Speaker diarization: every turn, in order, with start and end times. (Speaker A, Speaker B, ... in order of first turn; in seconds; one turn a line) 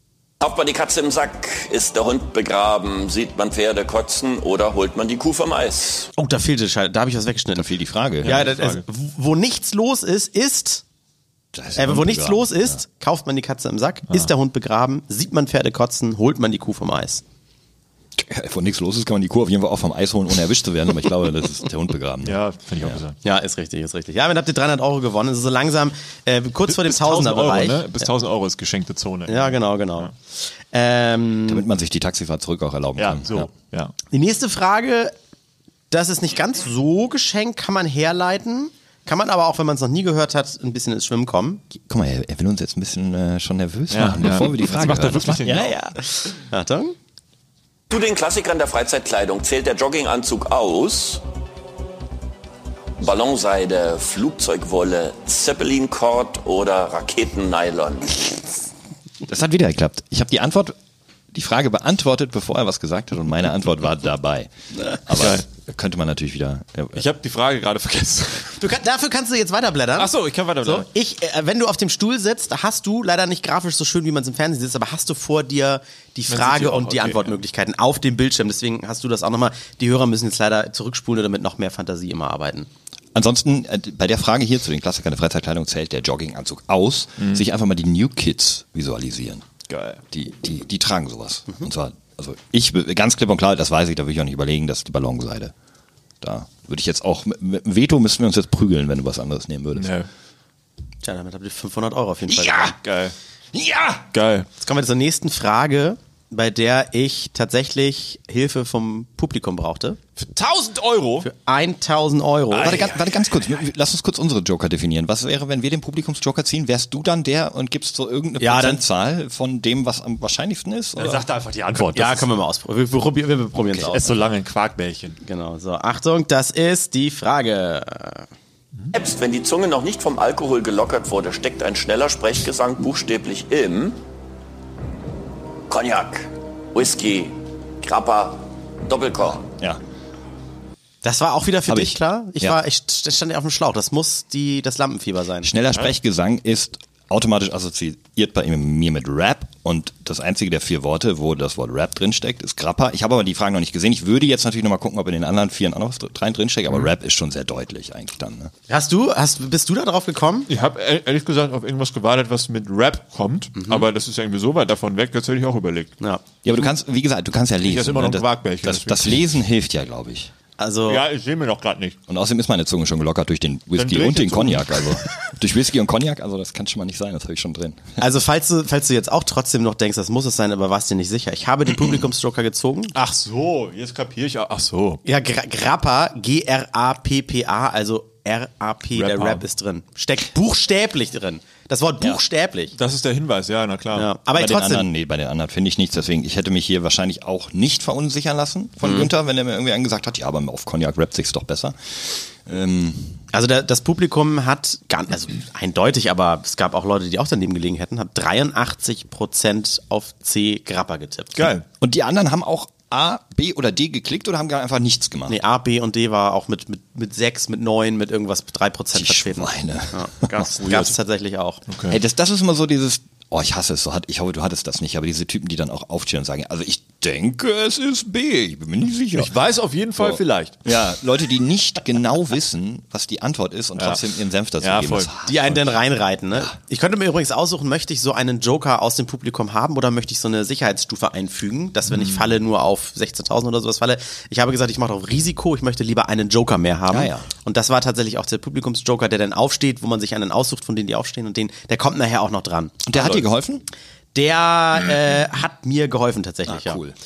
Speaker A: 0.4-6.1
Speaker B: 6.1-7.7
Speaker C: 7.5-8.4
Speaker B: 8.2-10.8
Speaker D: 8.2-8.8
Speaker C: 11.5-12.8
Speaker B: 11.8-17.2
Speaker C: 18.2-23.0
Speaker D: 22.2-23.2
Speaker B: 23.2-28.0
Speaker D: 26.6-30.1
Speaker B: 29.3-31.7
Speaker C: 31.4-33.5
Speaker D: 33.0-33.9
Speaker B: 34.1-35.1
Speaker B: 35.9-41.6
Speaker C: 41.7-46.0
Speaker D: 43.9-45.8
Speaker B: 46.1-46.9
Speaker A: 47.9-51.2
Speaker A: 53.0-58.2
Speaker C: 59.3-60.7
Speaker C: 61.3-67.0
Speaker D: 65.1-65.4
Speaker D: 66.9-68.7
Speaker B: 68.6-82.7
Speaker D: 69.9-70.9
Speaker D: 76.3-77.4
Speaker C: 83.1-89.4
Speaker D: 87.2-87.4
Speaker D: 89.7-90.0
Speaker C: 90.1-95.5
Speaker C: 96.2-99.9
Speaker D: 99.7-100.1
Speaker B: 101.0-102.8
Speaker C: 102.3-102.8
Speaker D: 102.8-103.1
Speaker C: 103.5-104.1
Speaker D: 104.1-104.5
Speaker B: 104.6-110.0
Speaker D: 110.2-111.3
Speaker B: 111.2-112.9
Speaker D: 112.5-113.5
Speaker C: 112.6-121.2
Speaker B: 118.4-118.8
Speaker D: 121.0-122.3
Speaker B: 121.9-124.1
Speaker D: 123.8-125.2
Speaker B: 125.2-128.3
Speaker A: 128.9-134.0
Speaker A: 135.7-139.4
Speaker B: 141.0-145.5
Speaker C: 141.7-142.6
Speaker C: 145.4-158.5
Speaker B: 158.7-160.5
Speaker D: 160.5-165.9
Speaker B: 163.6-163.8
Speaker C: 166.4-170.3
Speaker D: 167.6-169.2
Speaker B: 170.6-171.0
Speaker D: 170.8-172.0
Speaker C: 172.1-177.8
Speaker D: 173.7-175.1
Speaker B: 178.0-182.9
Speaker D: 182.9-185.0
Speaker B: 185.0-192.7
Speaker D: 188.9-189.4
Speaker D: 192.8-194.1
Speaker B: 193.9-194.9
Speaker C: 194.3-203.2
Speaker B: 198.8-199.1
Speaker B: 203.3-211.5
Speaker D: 211.3-211.6
Speaker C: 211.8-215.4
Speaker B: 215.3-221.6
Speaker C: 218.9-220.5
Speaker D: 220.6-220.9
Speaker D: 221.7-222.0
Speaker C: 221.9-229.3
Speaker D: 229.1-230.6
Speaker C: 229.9-235.8
Speaker D: 233.8-234.0
Speaker D: 234.6-235.1
Speaker B: 235.2-253.2
Speaker C: 246.9-247.3
Speaker C: 252.8-253.6
Speaker B: 254.1-256.8
Speaker C: 256.5-256.9